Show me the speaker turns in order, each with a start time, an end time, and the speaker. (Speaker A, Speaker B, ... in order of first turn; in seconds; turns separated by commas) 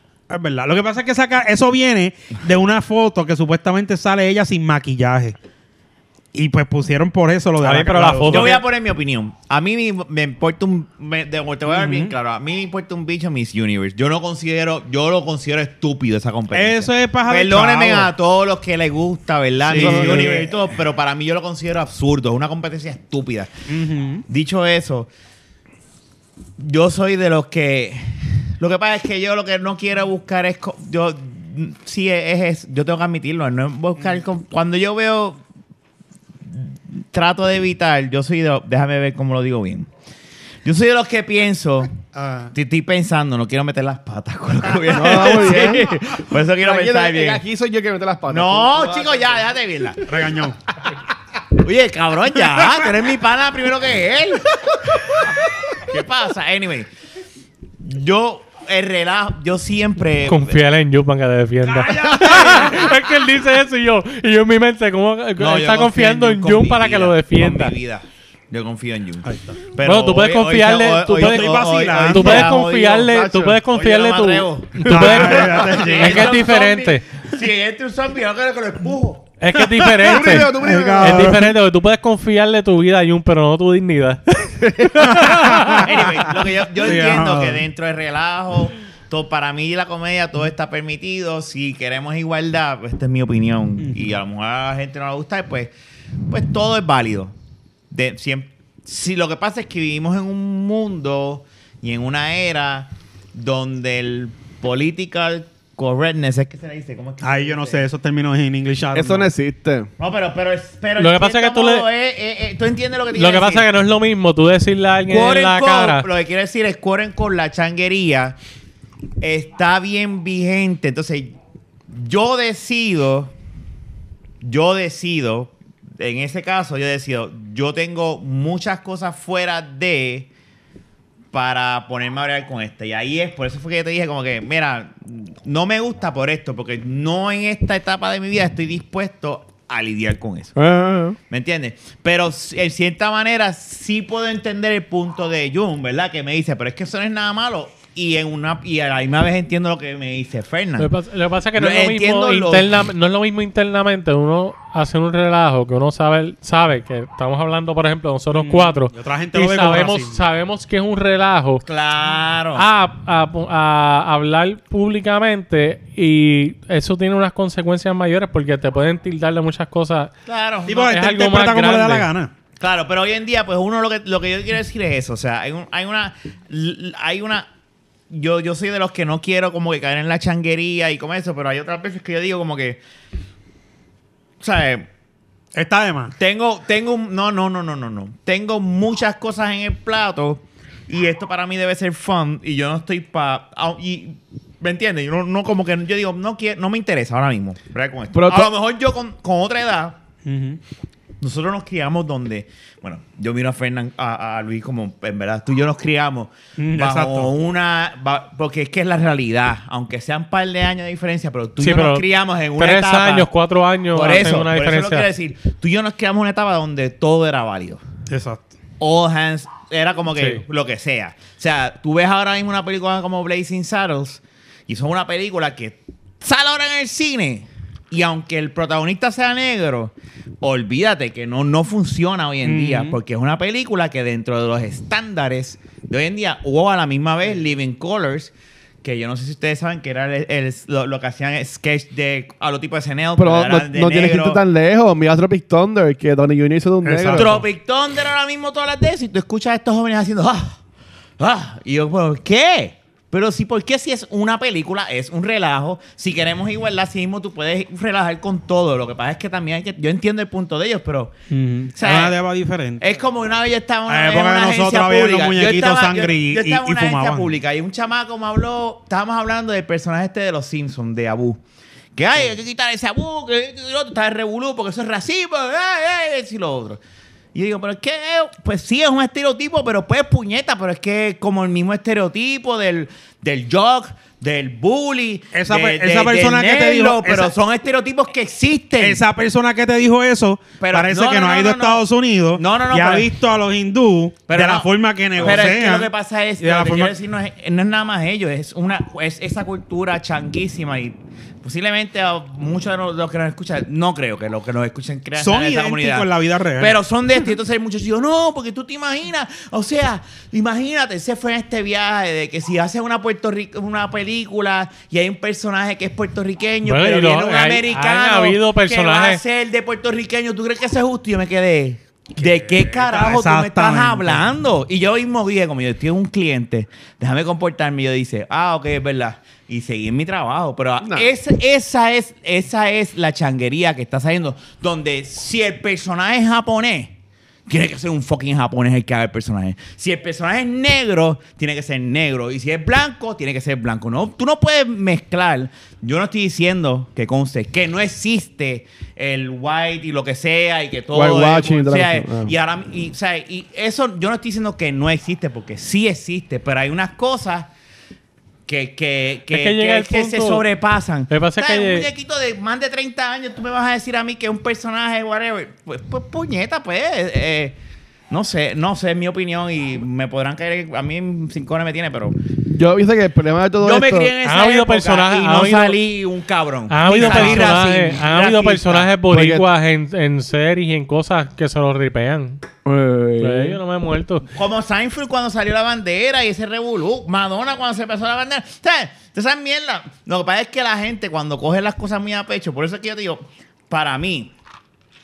Speaker A: 0.3-5.3, Speaker A: 6.3-8.6, Speaker B: 7.6-8.6, Speaker C: 8.2-23.5, Speaker A: 11.7-12.1, Speaker A: 16.5-18.1, Speaker A: 19.6-20.7, Speaker D: 19.7-20.4, Speaker A: 23.7-24.2, Speaker C: 24.3-25.1, Speaker C: 26.6-35.4, Speaker C: 36.5-39.9, Speaker C: 40.6-42.0, Speaker A: 42.1-42.5, Speaker C: 42.5-47.4, Speaker D: 44.9-46.0, Speaker D: 46.6-49.5, Speaker C: 48.3-50.1, Speaker A: 50.0-50.6, Speaker C: 51.6-56.9, Speaker C: 57.8-60.6, Speaker B: 60.2-67.7, Speaker A: 61.6-63.0, Speaker C: 62.4-62.6, Speaker C: 65.4-79.3, Speaker A: 69.2-69.6, Speaker B: 69.8-71.5, Speaker A: 71.2-72.5, Speaker B: 72.1-77.0, Speaker A: 74.8-76.4, Speaker B: 79.4-84.2, Speaker A: 79.5-81.5, Speaker D: 80.0-81.4, Speaker D: 84.4-85.8, Speaker A: 85.0-86.2, Speaker C: 85.7-95.7, Speaker A: 86.8-87.6, Speaker C: 96.3-97.3, Speaker C: 97.9-107.8, Speaker A: 107.2-109.3, Speaker D: 108.9-109.9, Speaker C: 110.0-113.7, Speaker B: 111.0-111.8, Speaker B: 113.1-116.1, Speaker C: 115.1-118.3, Speaker C: 119.2-121.3, Speaker C: 121.9-123.3, Speaker C: 124.4-130.3, Speaker C: 131.3-140.6, Speaker D: 140.6-141.2, Speaker C: 141.3-150.9, Speaker B: 150.8-161.6, Speaker C: 151.6-152.7, Speaker A: 158.3-160.2, Speaker C: 161.7-162.6, Speaker B: 162.6-170.1, Speaker C: 170.2-170.9, Speaker A: 170.7-172.3, Speaker B: 170.8-172.1, Speaker C: 172.6-177.5, Speaker C: 178.1-182.8, Speaker C: 184.4-184.9, Speaker A: 185.5-186.1, Speaker C: 186.2-200.0, Speaker D: 198.1-198.5, Speaker A: 200.2-200.6, Speaker C: 201.2-213.3, Speaker A: 206.6-207.3, Speaker B: 211.6-212.0, Speaker B: 212.6-215.1, Speaker C: 213.9-217.8, Speaker A: 218.1-218.5, Speaker C: 218.8-244.4, Speaker B: 220.2-220.4, Speaker A: 232.4-232.9, Speaker D: 243.2-247.4, Speaker A: 246.8-247.4, Speaker C: 247.1-250.6, Speaker C: 251.2-261.1, Speaker A: 261.3-262.8, Speaker C: 261.7-262.2, Speaker C: 262.8-271.4, Speaker A: 263.9-267.3, Speaker C: 271.9-276.8, Speaker C: 277.3-289.0, Speaker A: 285.3-287.3, Speaker A: 288.8-295.9, Speaker C: 290.6-291.8, Speaker C: 292.3-293.1, Speaker C: 294.3-336.9, Speaker A: 296.4-296.9, Speaker A: 305.2-306.8, Speaker B: 316.6-319.2, Speaker A: 322.2-324.2, Speaker D: 330.8-331.1, Speaker C: 337.5-357.5, Speaker D: 350.9-352.3, Speaker C: 358.5-367.6, Speaker B: 359.3-360.4, Speaker B: 361.1-361.9, Speaker C: 368.1-372.1, Speaker D: 372.5-374.1, Speaker C: 373.6-378.9, Speaker B: 374.2-375.8, Speaker B: 376.7-382.4, Speaker A: 376.9-377.6, Speaker D: 379.1-379.4, Speaker D: 382.6-383.6, Speaker B: 383.2-384.2, Speaker C: 384.3-394.3